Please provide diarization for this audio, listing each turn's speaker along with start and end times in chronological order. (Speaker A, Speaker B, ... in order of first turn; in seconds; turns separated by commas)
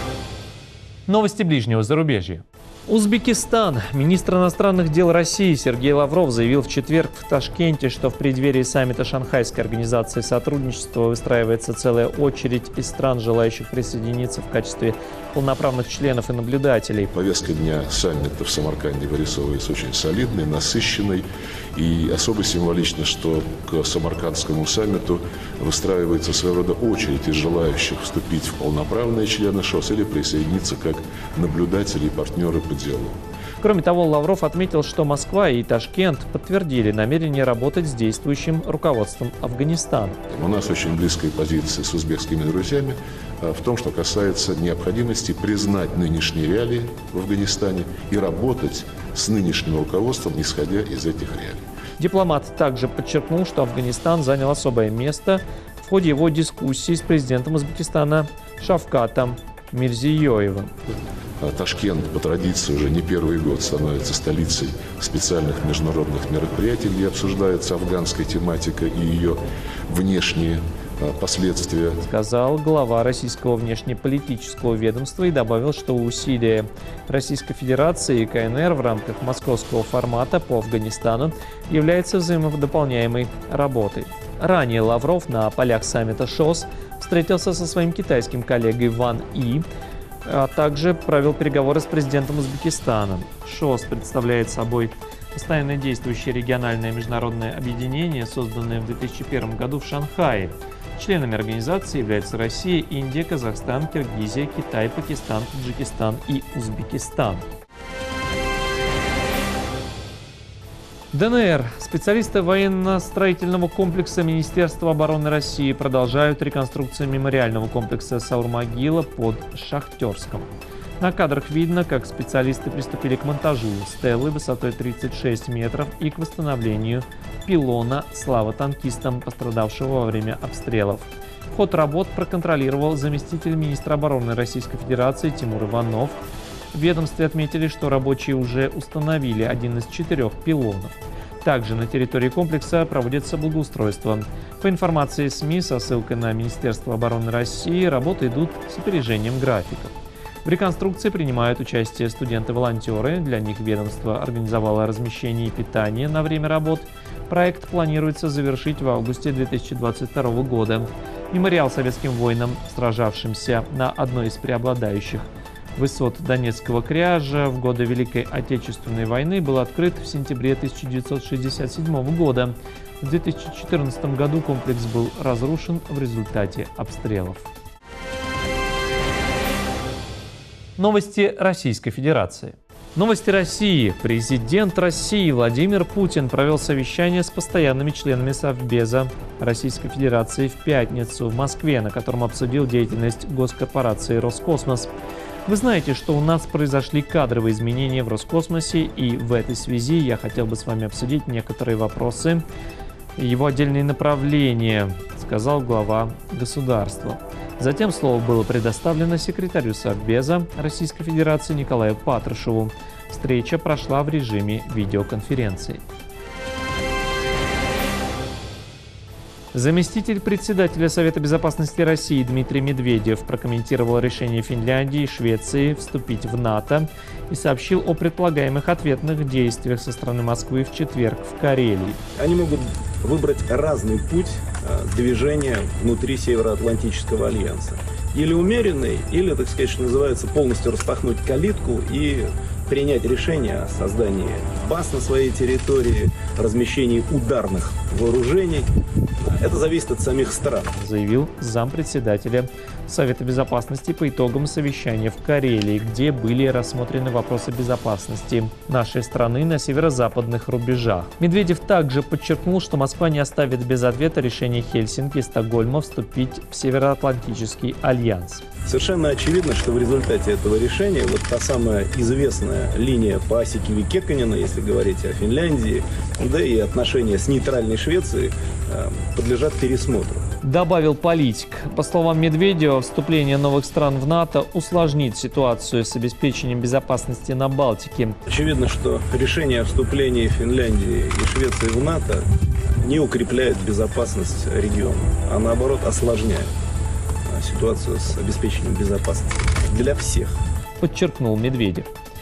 Speaker A: 1.1-17.1, Speaker B: 17.1-33.2, Speaker A: 33.6-40.2, Speaker B: 40.3-51.6, Speaker A: 52.0-60.7, Speaker B: 61.4-72.0, Speaker A: 72.0-89.7, Speaker A: 90.3-107.5, Speaker A: 111.1-120.5, Speaker A: 121.0-136.2, Speaker A: 136.7-149.9, Speaker A: 150.4-177.5, Speaker A: 180.8-194.9, Speaker A: 195.5-202.4, Speaker A: 203.2-215.8, Speaker A: 219.5-232.0, Speaker C: 232.2-248.7, Speaker C: 249.2-250.7, Speaker A: 250.8-268.4, Speaker C: 268.7-280.2, Speaker A: 280.4-288.2, Speaker C: 288.3-292.2, Speaker C: 292.8-296.5, Speaker C: 297.3-300.3, Speaker A: 300.8-301.9